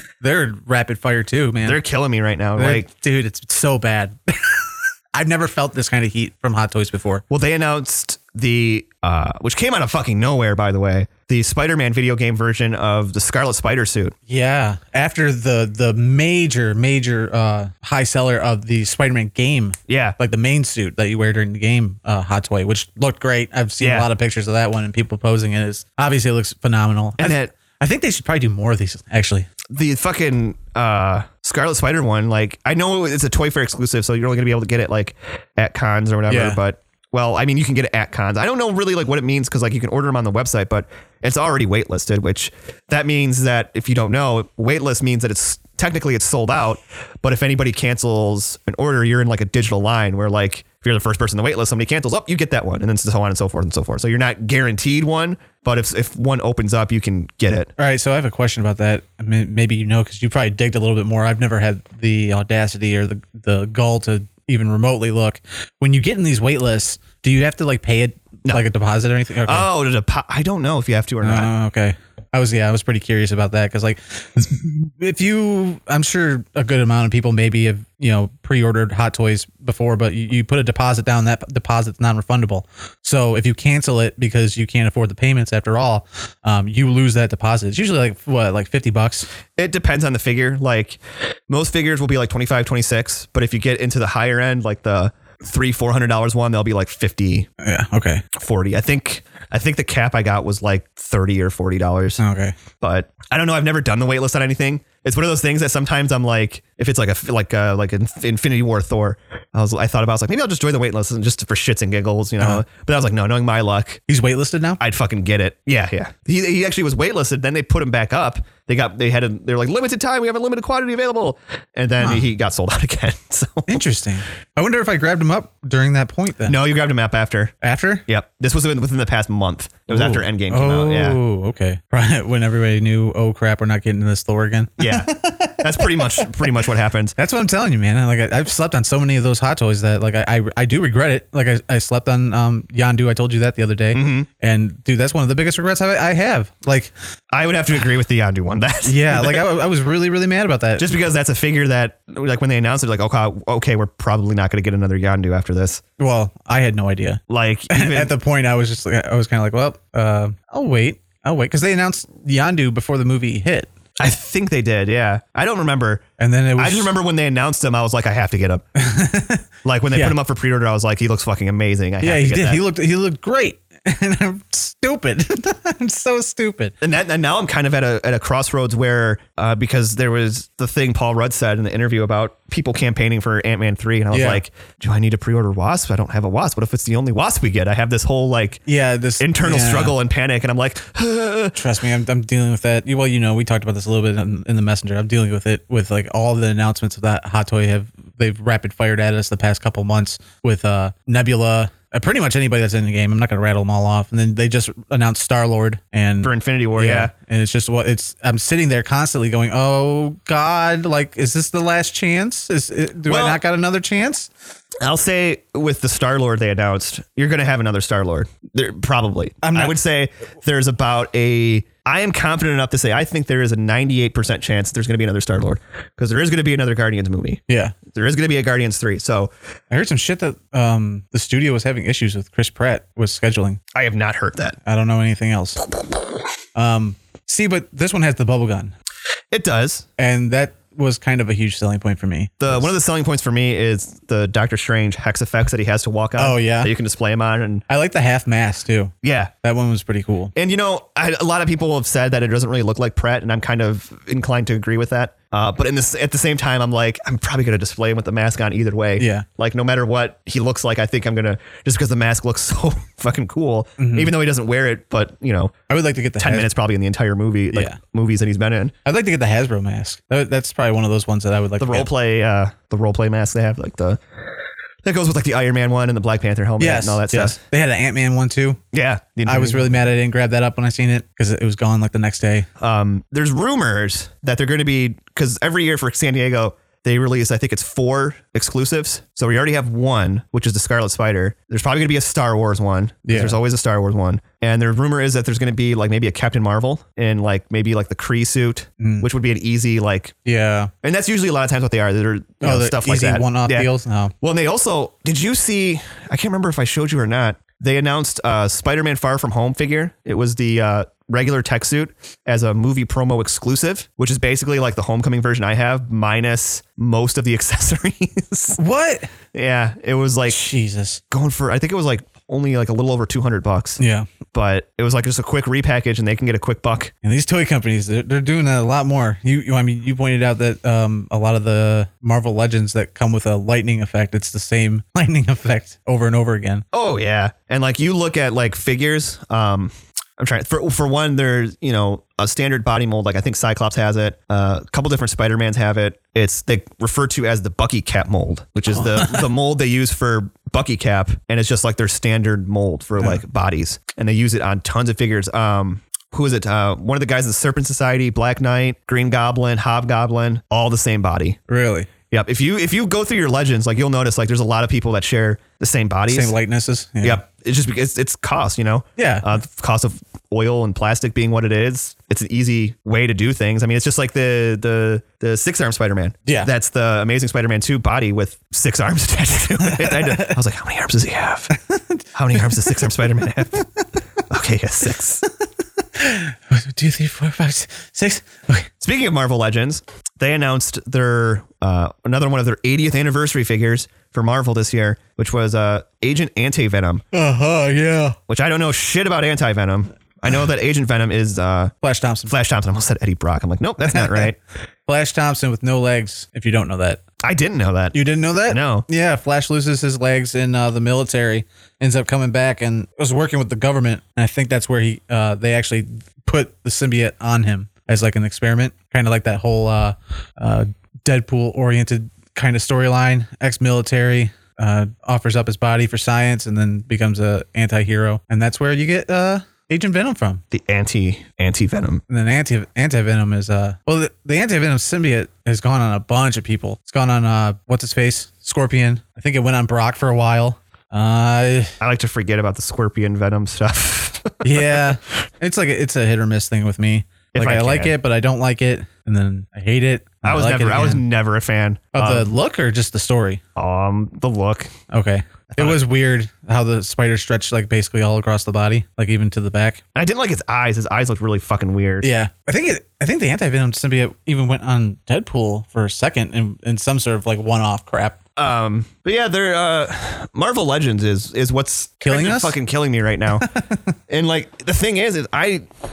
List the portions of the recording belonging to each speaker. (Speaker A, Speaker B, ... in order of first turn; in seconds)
Speaker A: 0.2-1.8, 2.6-7.2, 14.3-29.5, 36.3-36.6, 57.8-69.7, 71.2-89.3, 97.6-98.2, 102.2-102.5, 114.1-114.8, 123.7-126.6, 127.6-128.1, 129.9-136.5, 137.2-146.9, 148.8-150.9, 156.0-163.7, 166.2-166.9, 168.8-170.2, 172.0-176.7, 184.1-184.4, 188.7-189.9, 191.6-214.3, 219.4-219.8, 227.5-227.8, 229.7-233.6, 234.6-235.7, 236.6-238.7, 240.0-242.7, 246.2-246.7, 247.7-250.3, 259.0-259.3, 263.8-264.1, 265.7-266.5, 267.5-267.8, 268.9-271.9, 276.6-278.6, 279.3-282.5, 293.1-293.4, 298.8-299.1, 300.2-300.7, 302.4-304.1, 318.6-319.1, 320.3-321.0, 323.8-324.1, 327.0-336.6, 349.0-349.2, 361.5-361.9, 366.1-367.2, 369.0-369.3, 379.6-380.4, 381.5-383.0, 385.9-388.7, 397.1-398.2, 401.8-402.3, 403.9-404.3, 404.9-407.0, 407.9-430.4, 432.1-441.8, 444.4-451.0, 451.9-453.4, 454.9-459.8, 462.0-468.2, 472.0-472.6, 473.4-473.8
Speaker B: 1.6-2.9, 7.3-14.2, 19.9-20.2, 23.8-24.1, 27.2-27.5, 29.7-57.7, 69.5-71.5, 89.6-97.5, 98.3-102.2, 102.8-114.0, 114.8-123.8, 126.5-127.5, 128.1-131.2, 134.8-137.2, 143.9-144.3, 147.3-149.4, 150.8-155.8, 157.3-158.1, 164.0-166.0, 166.6-168.6, 169.7-172.6, 176.8-188.6, 189.2-191.6, 206.2-207.1, 213.1-213.4, 214.8-229.3, 233.7-234.6, 239.3-239.9, 242.4-247.7, 249.0-249.3, 250.3-265.5, 266.2-268.7, 271.6-274.0, 274.8-277.4, 278.7-279.8, 282.6-300.1, 300.8-303.7, 304.2-318.6, 319.3-320.4, 321.1-323.8, 324.3-326.9, 336.7-361.4, 362.1-366.4, 367.0-381.5, 382.1-383.6, 384.3-385.2, 388.8-397.0, 398.3-401.7, 402.3-404.4, 407.2-407.9, 408.5-408.9, 430.5-432.0, 441.8-444.9, 447.3-447.9, 450.2-452.3, 453.6-454.7, 455.5-455.8, 459.9-462.1, 468.4-473.5, 474.1-475.6